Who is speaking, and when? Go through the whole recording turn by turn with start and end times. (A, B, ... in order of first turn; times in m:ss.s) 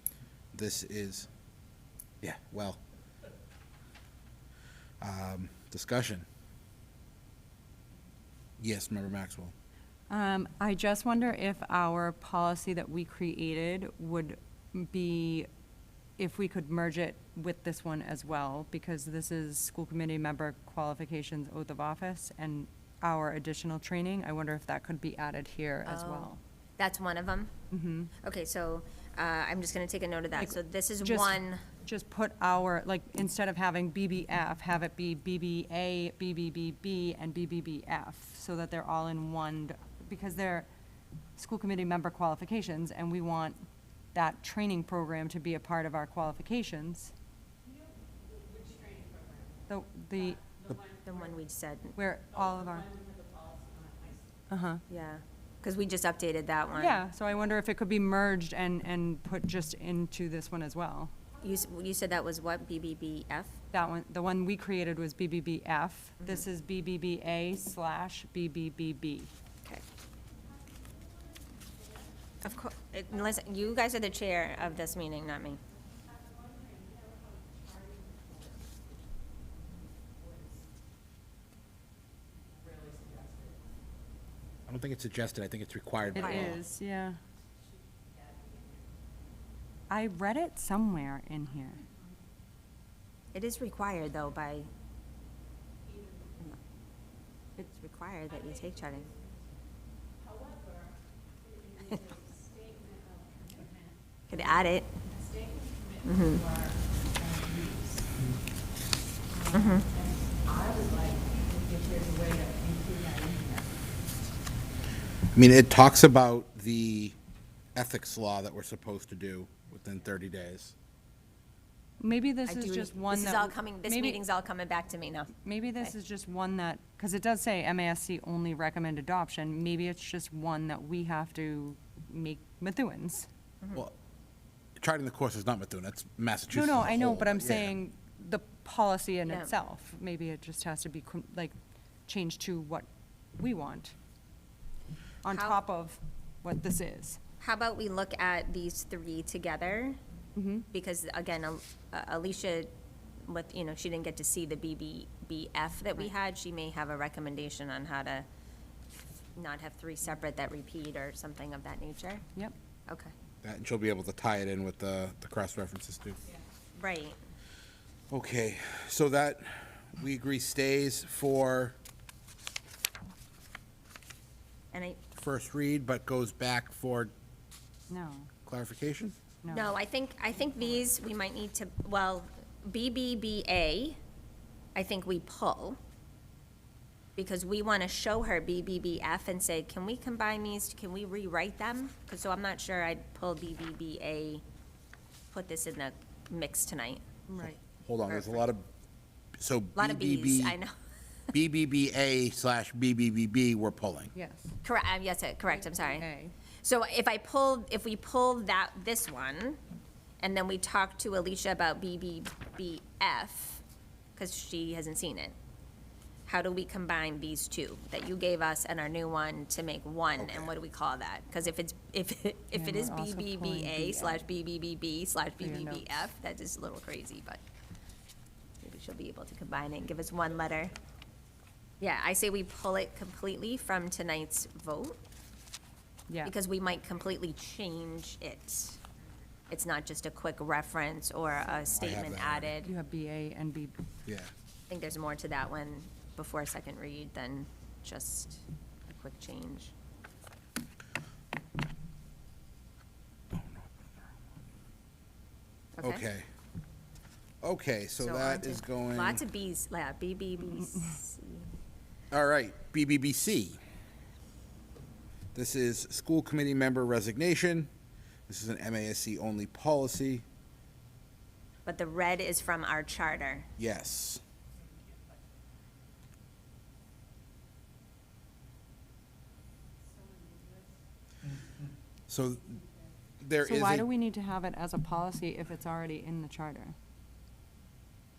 0:00.5-0:01.3 A
0:02.2-0:02.8 A
0:05.0-0:06.2 A
0:08.6-0:09.5 A
0:10.1-0:15.5 B
0:16.2-0:26.4 B
0:25.8-0:27.5 C
0:27.7-0:28.1 B
0:28.2-0:31.6 C
0:30.4-0:40.7 B
0:41.4-0:47.1 B
0:49.7-0:50.4 B
0:50.8-0:52.0 C
0:52.0-0:52.9 B
0:53.0-0:54.0 D
0:54.5-0:54.8 B
0:54.9-0:57.0 C
0:56.7-1:01.1 B
1:01.4-1:03.6 C
1:03.7-1:09.3 B
1:12.4-1:15.6 C
1:24.7-1:26.6 A
1:26.1-1:27.2 B
1:26.2-1:26.6 C
1:29.9-1:31.8 B
1:33.3-1:34.7 C
1:37.6-1:39.1 C
1:41.8-1:42.0 C
1:44.3-1:44.9 C
1:46.0-1:46.5 C
1:49.5-1:49.9 C
1:50.7-1:53.3 D
1:53.1-1:53.4 B
1:55.3-1:57.2 A
1:57.7-2:00.7 A
2:02.0-2:04.2 B
2:02.4-2:05.9 C
2:05.4-2:13.3 B
2:14.8-2:17.8 A
2:16.5-2:21.5 B
2:22.1-2:23.9 B
2:25.2-2:27.2 B
2:25.2-2:25.6 C
2:27.4-2:30.0 C
2:30.4-2:30.7 B
2:30.7-2:32.7 C
2:33.2-2:38.2 C
2:39.4-2:42.2 C
2:43.4-2:46.2 A
2:46.8-2:47.2 C
2:48.1-2:51.8 A
2:54.7-2:55.0 C
2:55.1-2:57.1 A
2:57.9-2:58.3 B
2:58.4-2:59.2 A
2:59.4-2:59.7 B
2:59.5-3:04.0 C
3:04.7-3:05.8 C
3:07.2-3:14.4 C
3:15.3-3:17.0 C
3:17.3-3:17.6 B
3:17.8-3:18.7 A
3:18.1-3:18.4 C
3:19.4-3:20.6 A
3:19.8-3:20.7 C
3:21.3-3:24.1 A
3:24.1-3:24.6 B
3:24.6-3:26.0 C
3:25.5-3:26.3 B
3:26.6-3:29.6 C
3:30.2-3:33.6 C
3:34.2-3:35.3 C
3:36.2-3:47.4 C
3:40.2-3:40.5 A
3:42.5-3:44.2 B
3:45.4-3:46.0 B
3:48.6-3:50.8 C
3:51.8-3:55.0 C
3:56.2-3:58.8 C
3:59.5-4:02.7 C
4:01.5-4:02.5 A
4:02.6-4:03.7 B
4:04.0-4:04.3 A
4:04.7-4:09.7 C
4:13.3-4:14.1 A
4:15.8-4:16.0 C
4:15.8-4:16.3 A
4:17.4-4:19.2 A
4:18.0-4:21.5 C
4:22.1-4:23.6 A
4:25.3-4:27.7 A
4:28.3-4:30.2 A
4:31.6-4:33.5 C
4:33.6-4:34.2 A
4:42.1-4:42.6 A
4:43.2-4:43.9 A
4:43.4-4:46.7 B